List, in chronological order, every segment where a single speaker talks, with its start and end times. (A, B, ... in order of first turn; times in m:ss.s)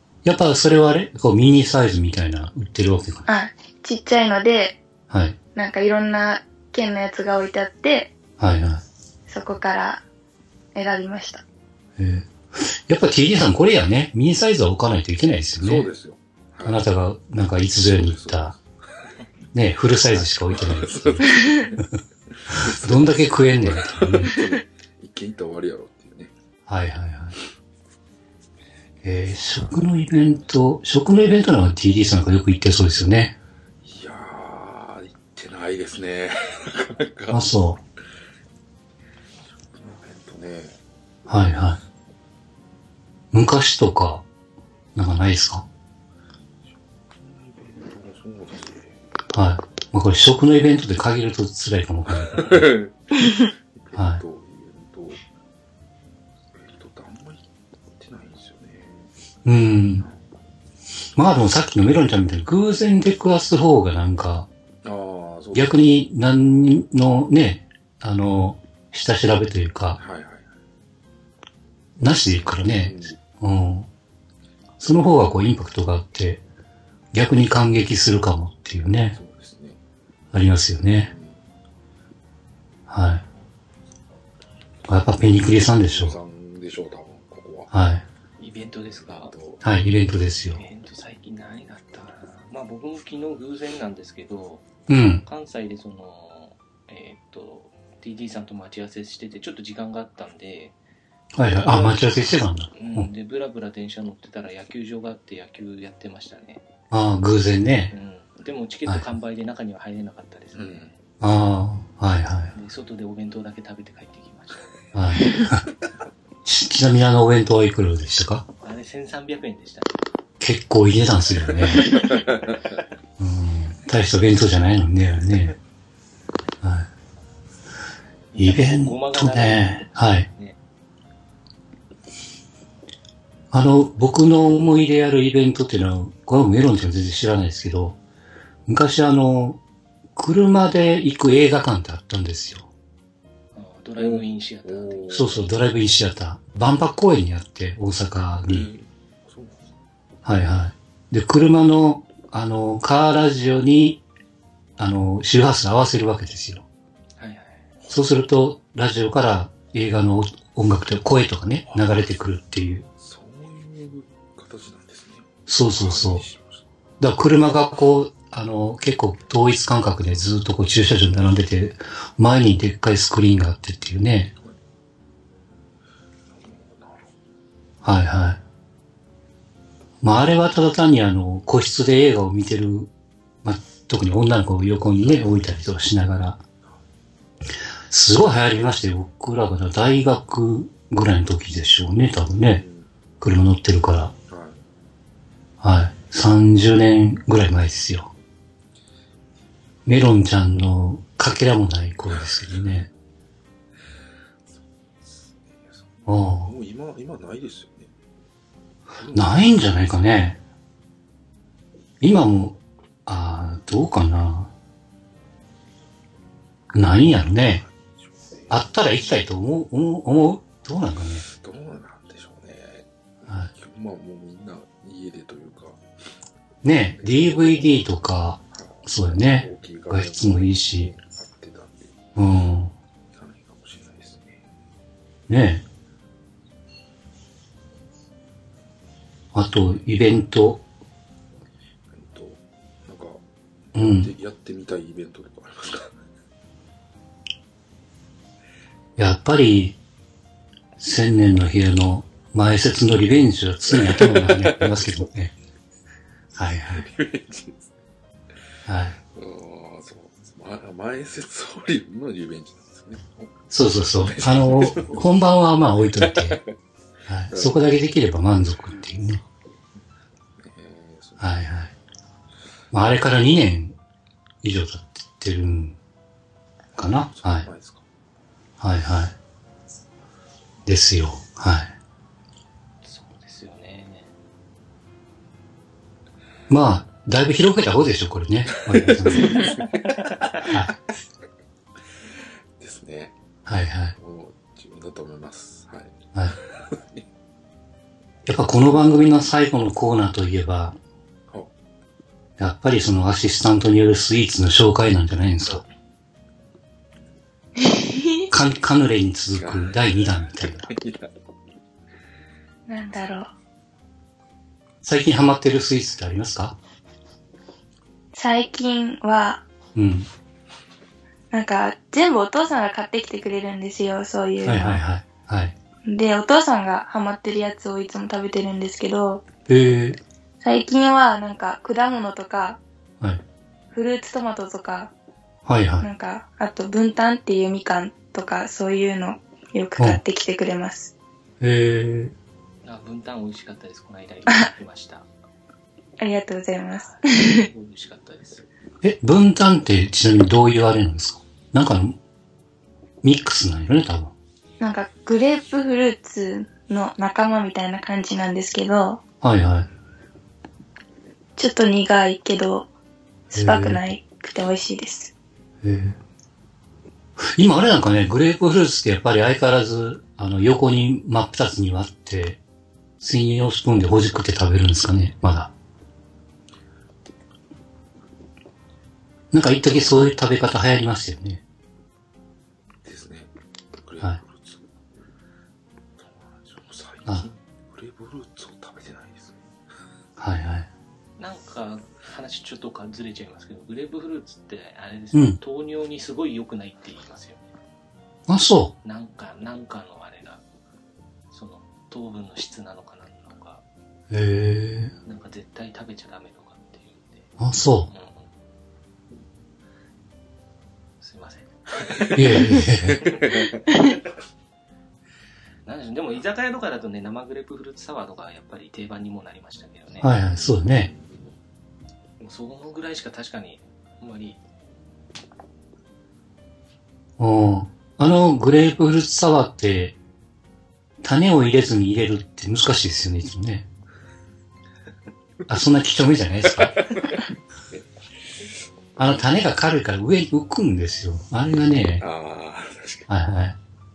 0:00.2-0:03.3 A
0:03.3-0:04.8 B
0:05.1-0:05.4 A
0:05.6-0:08.1 B
0:08.4-0:08.8 A
0:09.3-0:10.0 B
0:10.8-0:11.4 B
0:12.0-0:15.9 A
0:15.6-0:16.9 C
0:16.6-0:18.6 A
0:17.9-0:19.1 C
0:19.5-0:21.8 A
0:20.1-0:21.8 C
0:21.3-0:21.6 B
0:22.4-0:26.3 C
0:22.5-0:24.4 A
0:26.7-0:27.4 A
0:29.0-0:33.4 A
0:33.8-0:37.4 C
0:37.3-0:37.8 A
0:39.7-0:40.8 C
0:41.3-0:41.8 A
0:43.3-0:44.3 A
0:45.0-0:45.7 A
0:47.1-0:49.0 C
0:49.3-0:52.8 A
0:52.1-0:55.2 C
0:54.0-0:54.2 A
0:56.5-0:59.1 C
0:59.4-1:00.1 A
1:00.0-1:00.2 C
1:01.2-1:04.5 A
1:04.8-1:05.8 C
1:05.5-1:10.0 A
1:10.0-1:10.5 C
1:12.0-1:13.9 A
1:12.4-1:13.2 C
1:14.8-1:16.4 A
1:17.1-1:19.2 A
1:18.9-1:19.8 C
1:20.3-1:21.1 A
1:21.0-1:21.4 C
1:22.9-1:23.2 A
1:24.9-1:26.2 A
1:25.7-1:27.7 C
1:27.7-1:28.0 A
1:28.4-1:29.4 D
1:29.0-1:29.6 C
1:29.6-1:30.6 A
1:30.5-1:34.7 D
1:34.9-1:35.2 A
1:35.2-1:40.8 D
1:41.4-1:43.1 A
1:41.4-1:42.1 D
1:42.8-1:46.6 D
1:46.9-1:47.9 A
1:47.9-1:51.0 D
1:50.6-1:50.9 C
1:51.2-1:52.5 A
1:52.5-1:54.7 D
1:54.9-1:55.7 A
1:56.4-1:58.5 A
1:58.6-2:00.0 D
2:00.4-2:02.1 A
2:01.4-2:02.4 D
2:03.2-2:05.6 A
2:06.6-2:06.9 A
2:08.3-2:10.6 D
2:08.4-2:10.3 A
2:13.5-2:18.0 A
2:18.7-2:19.6 A
2:20.2-2:22.7 A
2:23.5-2:25.5 D
2:24.0-2:25.4 C
2:25.1-2:28.7 A
2:28.5-2:29.7 C
2:30.2-2:34.0 A
2:34.8-2:36.6 A
2:37.2-2:37.7 D
2:37.9-2:42.9 A
2:41.7-2:42.1 C
2:43.0-2:46.7 C
2:45.5-2:46.2 A
2:47.0-2:54.3 A
2:56.3-2:57.2 C
2:57.8-2:58.4 A
3:00.0-3:02.9 A
3:03.4-3:06.4 A
3:07.9-3:12.6 A
3:12.4-3:12.9 C
3:13.2-3:14.1 A
3:14.3-3:14.6 C
3:15.6-3:18.1 A
3:19.9-3:22.9 A
3:24.5-3:27.9 C
3:26.1-3:26.5 A
3:28.9-3:29.4 C
3:29.1-3:30.4 A
3:32.0-3:34.5 A
3:36.7-3:37.6 A
3:37.6-3:38.6 C
3:38.5-3:41.3 A
3:41.3-3:45.8 C
3:46.6-3:50.9 A
3:47.0-3:47.8 C
3:48.5-3:52.0 C
3:52.2-3:52.7 A
3:53.1-3:54.4 C
3:55.3-3:55.6 A
3:59.3-4:00.6 A
4:01.9-4:03.2 C
4:03.7-4:05.9 C
4:03.8-4:04.1 A
4:09.0-4:09.8 A
4:10.8-4:15.3 A
4:13.7-4:14.9 C
4:16.4-4:16.9 A
4:16.8-4:17.7 C
4:18.7-4:19.0 A
4:19.1-4:23.4 C
4:23.5-4:26.4 A
4:24.0-4:25.0 C
4:26.0-4:26.4 C
4:27.1-4:29.2 A
4:27.3-4:27.6 C
4:30.4-4:31.4 C
4:31.2-4:31.7 A
4:32.7-4:33.8 A
4:34.4-4:35.8 A
4:36.8-4:37.5 A
4:36.8-4:37.9 C
4:38.6-4:39.2 A
4:40.7-4:41.8 A
4:42.8-4:44.1 D
4:46.5-4:49.6 A
4:48.7-4:49.6 C
4:49.5-4:50.4 D
4:50.5-4:50.8 A
4:52.6-4:53.2 C
4:53.5-4:54.0 A
4:54.0-4:57.1 C
4:58.3-5:00.8 A
5:02.4-5:05.6 A
5:07.6-5:08.3 B
5:08.3-5:10.7 A
5:09.4-5:11.1 C
5:12.7-5:13.3 B
5:14.8-5:16.6 A
5:18.1-5:19.4 B
5:19.8-5:20.1 A
5:21.3-5:24.8 B
5:24.4-5:25.6 A
5:25.9-5:29.2 B
5:29.5-5:30.0 A
5:30.4-5:32.6 B
5:33.7-5:34.9 B
5:35.5-5:35.9 A
5:35.8-5:40.9 B
5:41.4-5:42.1 A
5:42.6-5:45.1 D
5:46.0-5:47.5 B
5:46.8-5:48.4 D
5:48.8-5:52.0 A
5:53.0-5:54.1 A
5:54.6-5:59.0 B
5:59.2-5:59.7 A
6:01.4-6:02.7 B
6:03.3-6:05.1 B
6:03.3-6:03.8 A
6:05.6-6:06.0 A
6:07.2-6:12.4 A
6:13.0-6:15.5 A
6:19.3-6:21.4 A
6:22.8-6:24.7 C
6:26.0-6:29.4 C
6:30.2-6:30.7 A
6:31.2-6:37.5 D
6:35.1-6:35.4 A
6:38.3-6:38.8 A
6:38.8-6:40.4 D
6:41.3-6:43.6 D
6:44.1-6:44.9 A
6:45.0-6:47.3 D
6:47.4-6:47.9 A
6:47.9-6:48.3 D
6:51.0-6:52.5 D
6:52.0-6:53.6 C
6:52.1-6:53.1 A
6:55.6-7:00.1 D
7:00.0-7:00.9 A
7:00.3-7:01.4 C
7:02.2-7:04.4 D
7:07.2-7:10.0 A
7:11.0-7:13.7 A
7:15.5-7:17.0 A
7:19.0-7:22.1 A
7:22.0-7:23.1 C
7:23.1-7:23.6 A